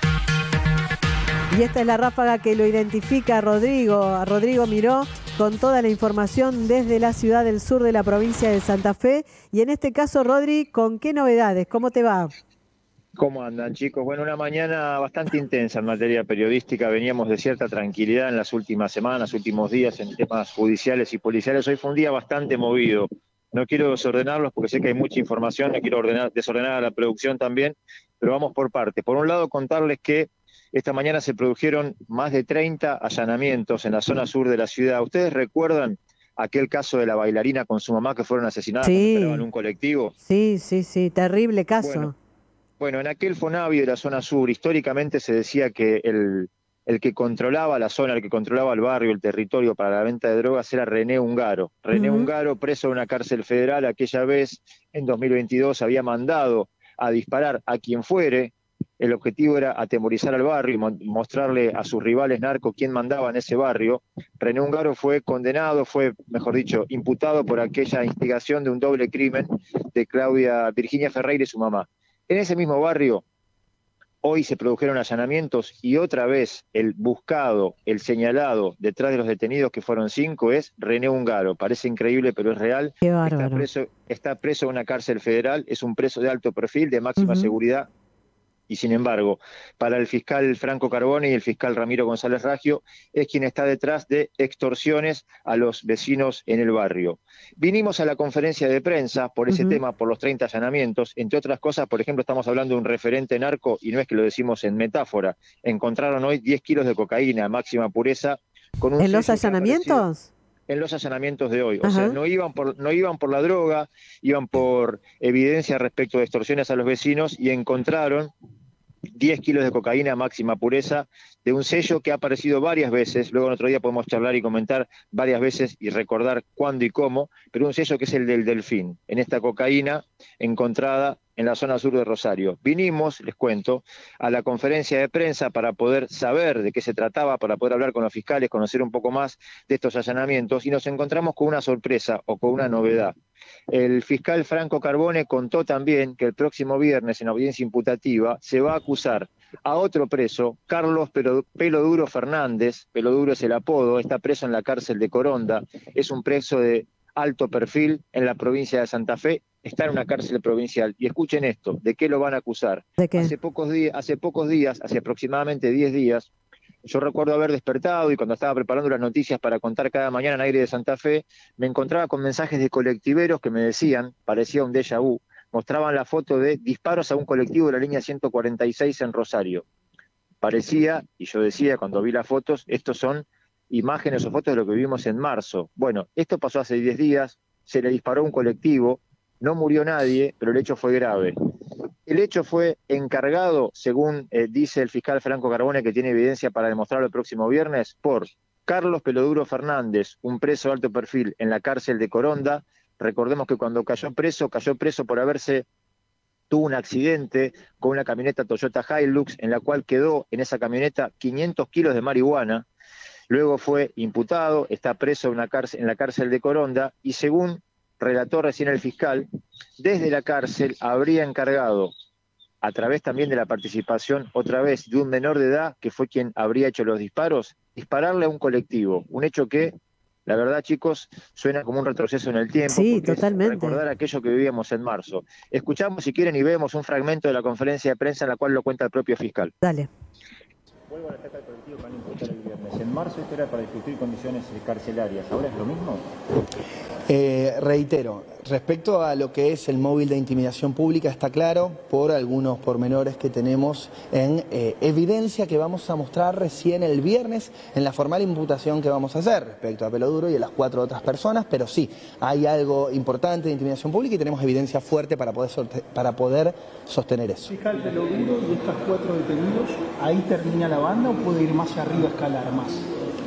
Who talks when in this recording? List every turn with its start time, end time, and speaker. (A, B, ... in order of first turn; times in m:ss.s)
0:01.5-0:12.3 A
0:13.2-0:40.1 B
0:38.8-0:39.4 A
0:40.2-0:42.1 A
0:41.8-0:42.1 B
0:42.8-1:13.2 B
0:51.9-0:52.3 A
1:14.2-1:27.9 B
1:23.0-1:23.6 A
1:27.2-1:27.5 A
1:28.7-1:50.0 B
1:39.5-1:39.8 A
1:49.0-1:50.3 A
1:50.7-1:58.3 B
1:51.8-1:52.2 A
1:59.1-2:23.1 B
2:23.7-2:46.3 B
2:43.0-2:43.3 A
2:46.8-2:59.6 B
3:00.4-3:11.3 B
3:12.1-3:25.6 B
3:26.5-3:32.7 B
3:33.3-3:39.3 B
3:39.8-3:41.9 B
3:42.6-3:49.7 B
3:50.2-3:59.5 B
3:52.7-3:53.8 A
3:59.6-3:59.9 A
4:00.9-4:06.0 B
4:07.1-4:27.5 C
4:27.5-4:32.8 D